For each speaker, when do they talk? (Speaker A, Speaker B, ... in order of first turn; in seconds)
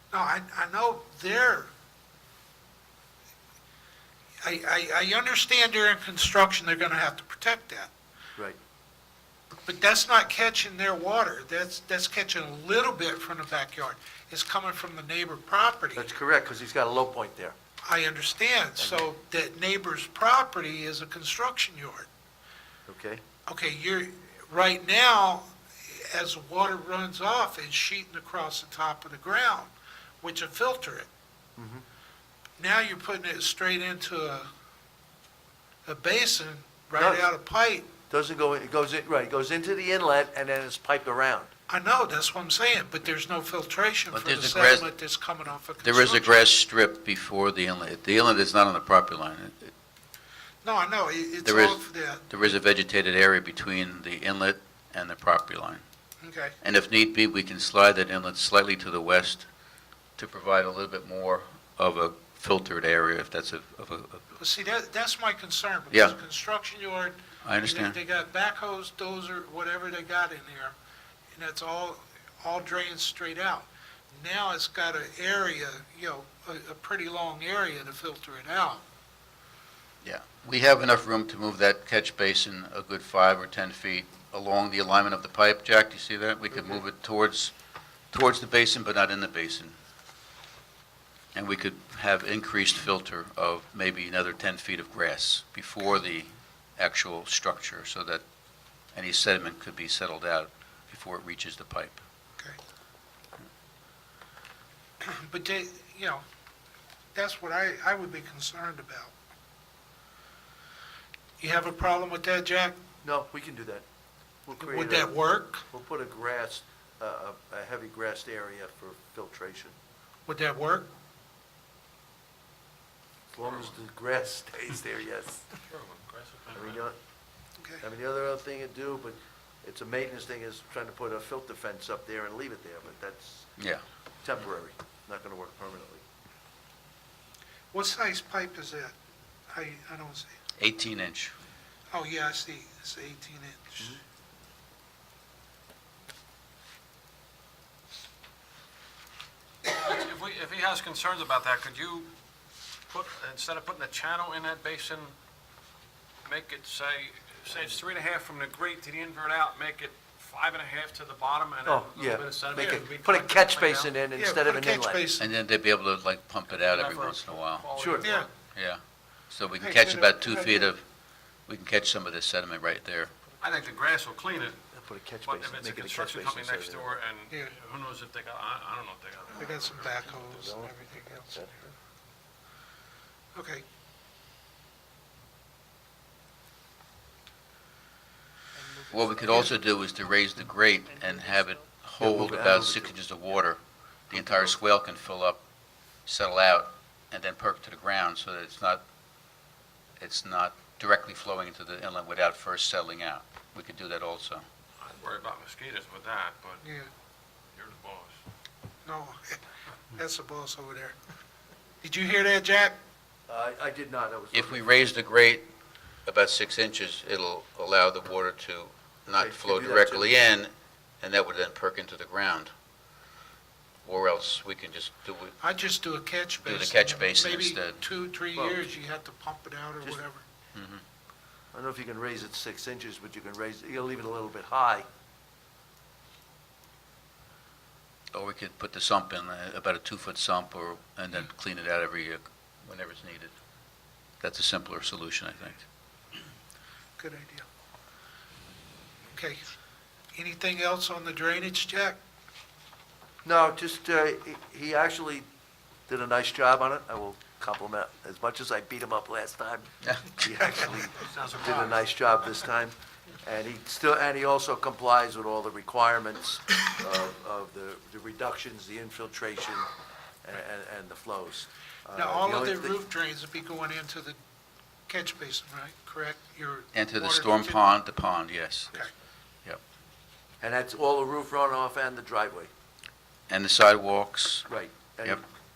Speaker A: 0.1-1.7, 4.4-7.9, 9.7-16.1, 17.8-22.1, 23.5-31.1, 32.6-34.5, 35.9-37.9, 41.7-46.5, 50.6-52.2, 56.2-56.5, 64.3-70.7, 71.3-78.8, 105.0-106.2, 107.1-109.1, 111.4-112.8, 114.6-115.6, 120.3-120.9, 137.7-138.9, 139.5-140.3, 141.9-143.9, 162.5-162.8, 164.1-165.2, 168.0-168.3, 169.6-170.7, 179.3-181.4, 183.3-183.6, 206.6-206.9, 208.8-210.9, 211.8-212.8, 225.4-230.2, 247.0-247.5, 249.1-249.4, 250.1-252.0, 260.5-260.9, 271.9-274.2, 274.9-277.6
Speaker B: 15.9-17.5, 18.8-19.0, 22.9-23.2, 31.6-31.8, 37.0-37.2, 38.1-41.5, 113.0-113.8, 114.5-119.7, 123.3-125.5, 126.5-127.0, 127.8-133.5, 134.2-136.0, 161.6-165.1, 167.8-168.1, 174.7-176.9, 180.2-181.7, 192.0-192.9, 194.1-194.5, 213.3-214.6, 219.1-220.1, 231.5-234.9, 253.2-255.3, 255.9-269.7, 270.2-272.8, 280.4-282.5, 284.5-285.2
Speaker C: 44.1-44.9, 45.8-49.7, 51.4-55.8, 56.6-59.5, 60.2-64.2, 67.4-68.0, 80.0-87.5, 88.1-89.7, 91.3-98.2, 98.9-102.0, 133.6-133.8, 140.6-141.3, 165.2-167.7, 168.5-170.8, 171.4-173.1, 188.9-195.4, 196.1-198.8, 200.0-204.4, 214.3-215.4, 216.1-222.5, 223.8-225.4, 226.4-227.8, 230.5-230.8, 238.1-243.3, 244.2-245.6, 276.7-278.8, 283.3-284.5
Speaker D: 125.7-126.8, 149.7-152.1, 152.9-155.1, 156.2-163.9, 166.5-168.3, 173.4-174.6, 175.2-179.9, 204.8-206.6, 207.5-208.2, 261.0-261.7